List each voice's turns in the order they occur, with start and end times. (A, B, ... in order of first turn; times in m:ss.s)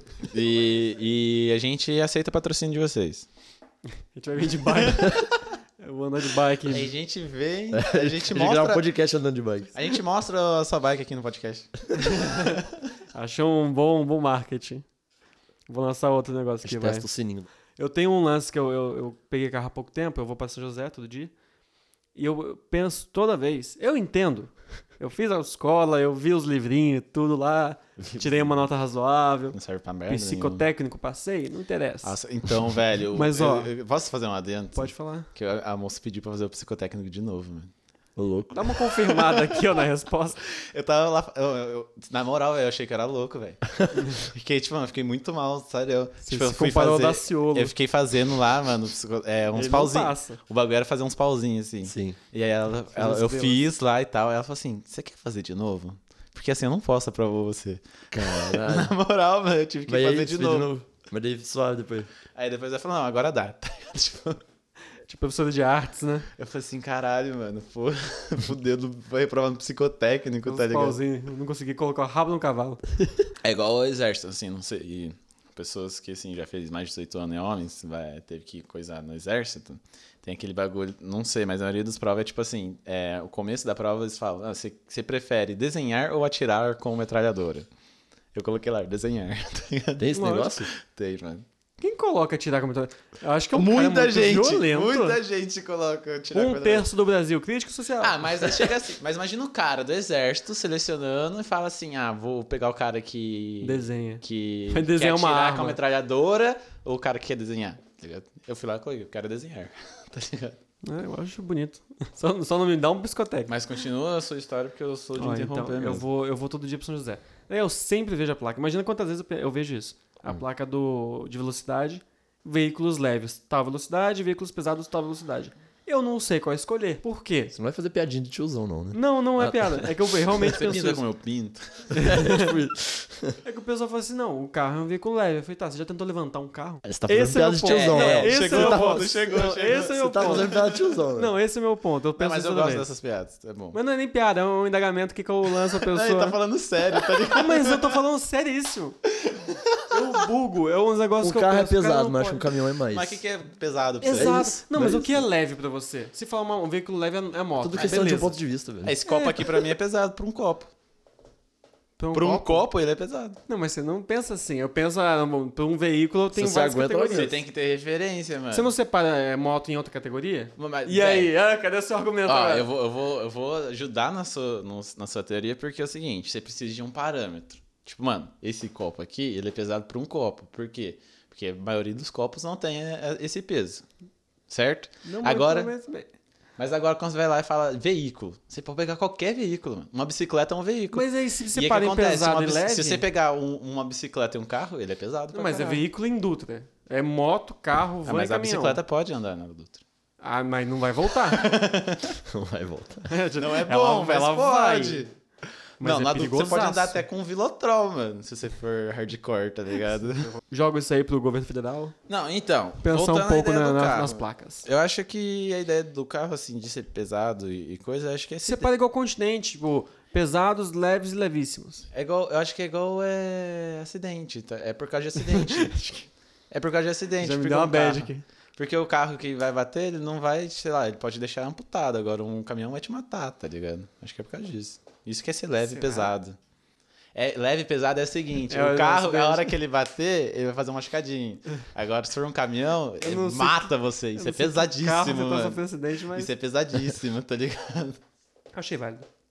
0:00.3-0:03.2 A
0:04.1-0:06.9 B
0:06.7-0:08.8 A
0:07.7-0:09.7 C
0:09.7-0:12.5 A
0:11.9-0:12.6 B
0:13.1-0:14.8 B
0:15.7-0:17.1 B
0:16.6-0:17.5 C
0:17.8-0:21.3 B
0:22.1-0:32.2 B
0:29.5-0:30.6 A
0:32.0-0:37.7 A
0:33.1-0:33.7 B
0:34.7-0:35.3 B
0:38.2-0:38.7 C
0:38.5-0:40.4 B
0:39.1-0:39.6 A
0:40.4-1:00.7 A
0:46.2-0:47.7 B
0:49.5-0:50.4 B
0:51.8-0:52.2 C
0:52.9-0:53.6 B
0:58.1-0:58.9 C
0:59.9-1:02.1 C
1:02.3-1:04.4 A
1:05.1-1:06.3 B
1:06.4-1:11.0 A
1:10.4-1:12.8 B
1:13.4-1:27.7 A
1:28.3-1:31.4 A
1:30.0-1:30.7 C
1:30.1-1:30.5 B
1:31.8-1:35.2 B
1:33.5-1:36.9 A
1:36.3-1:38.2 B
1:38.0-1:50.6 A
1:43.6-1:45.8 B
1:50.8-1:53.6 B
1:53.5-1:56.0 A
1:55.2-2:07.5 B
2:07.5-2:09.9 C
2:08.9-2:11.0 B
2:10.4-2:12.2 A
2:11.9-2:12.5 B
2:12.0-2:13.4 C
2:13.4-2:20.6 B
2:16.8-2:19.0 C
2:17.6-2:20.8 A
2:19.7-2:21.3 C
2:21.1-2:22.9 B
2:22.2-2:23.8 A
2:23.7-2:26.4 B
2:25.7-2:28.0 A
2:27.3-2:29.0 B
2:29.2-2:29.8 A
2:29.9-2:32.5 B
2:31.2-2:33.2 C
2:32.9-2:34.5 A
2:34.0-2:38.3 B
2:34.1-2:35.2 C
2:37.6-2:39.0 C
2:37.8-2:38.1 A
2:38.8-2:40.7 A
2:39.0-2:39.7 B
2:42.0-2:42.7 B
2:42.1-2:43.4 A
2:43.5-2:47.4 B
2:46.3-2:47.3 C
2:47.1-2:48.7 A
2:48.5-2:52.7 B
2:50.6-2:51.3 A
2:52.2-3:03.8 A
3:04.5-3:05.7 A
3:05.0-3:06.1 B
3:06.6-3:15.8 A
3:10.9-3:13.0 B
3:15.3-3:18.8 B
3:18.0-3:19.8 A
3:20.2-3:21.5 B
3:21.3-3:22.2 A
3:22.2-3:23.1 C
3:23.0-3:25.0 B
3:23.4-3:25.1 A
3:25.8-3:27.0 B
3:25.8-3:30.3 A
3:30.4-3:31.9 B
3:32.1-3:38.7 A
3:32.8-3:34.6 B
3:38.4-3:41.8 B
3:41.9-3:56.4 A
3:45.2-3:45.7 B
3:47.2-3:48.2 B
3:55.6-3:56.1 B
3:57.1-4:08.0 A
3:58.5-3:59.6 B
4:03.0-4:06.3 B
4:08.5-4:09.0 B